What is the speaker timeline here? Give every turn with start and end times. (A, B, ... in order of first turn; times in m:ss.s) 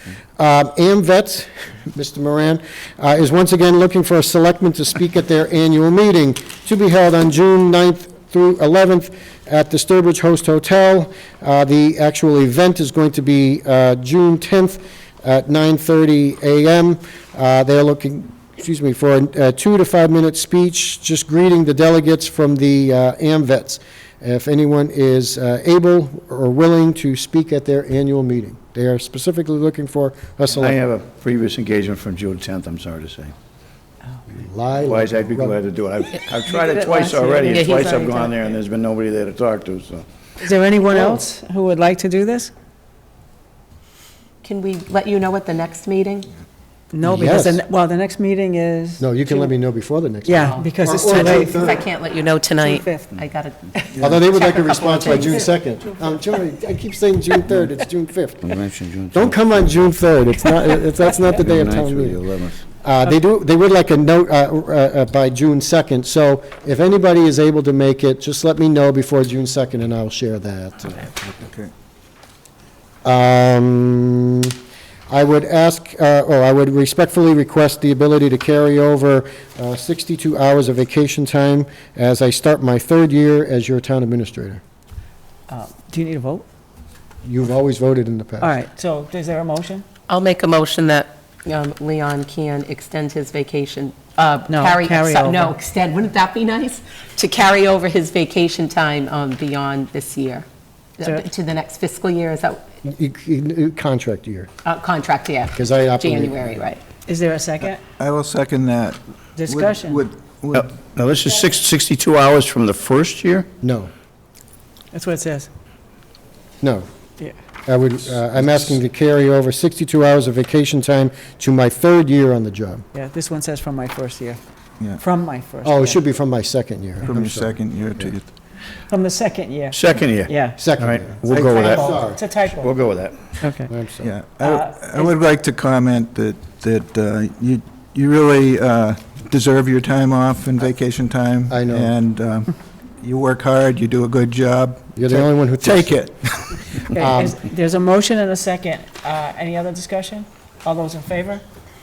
0:00.4-0:30.8 A
0:30.6-0:33.3 B
0:34.3-0:35.6 A
0:34.8-0:40.1 B
0:36.4-0:38.6 C
0:37.5-0:37.9 D
0:40.4-0:42.5 C
0:44.4-0:46.3 D
0:46.9-0:49.1 C
0:47.0-0:47.6 A
0:49.0-0:51.8 A
0:50.2-0:51.8 C
0:50.4-0:55.5 D
0:52.6-0:53.2 C
0:53.8-0:54.0 C
0:54.0-0:58.5 A
0:54.9-0:55.5 C
0:58.6-0:59.3 B
0:59.1-1:11.1 A
1:01.5-1:02.4 B
1:11.2-1:11.7 E
1:13.0-1:14.6 A
1:15.1-1:24.6 A
1:25.5-1:26.4 C
1:27.2-1:28.5 A
1:28.4-1:29.9 C
1:30.1-1:40.5 D
1:34.5-1:35.6 C
1:41.0-1:42.6 D
1:42.8-1:44.5 A
1:44.6-1:46.8 D
1:45.6-1:46.7 A
1:47.1-1:47.8 C
1:48.0-1:50.7 E
1:49.4-1:50.0 C
1:50.5-1:53.5 B
1:53.6-1:53.9 A
1:54.9-1:55.5 C
1:56.6-1:56.9 A
1:57.7-2:02.8 A
2:02.9-2:04.4 C
2:05.0-2:06.0 C
2:05.6-2:07.5 A
2:07.0-2:08.3 E
2:08.9-2:10.6 C
2:09.7-2:11.9 B
2:10.6-2:12.2 A
2:11.2-2:12.8 C
2:12.5-2:13.4 B
2:13.4-2:13.7 C
2:13.7-2:14.1 A
2:14.0-2:26.9 E
2:14.4-2:15.2 C
2:21.5-2:21.9 A
2:25.0-2:26.0 A
2:26.9-2:31.4 C
2:27.0-2:27.4 A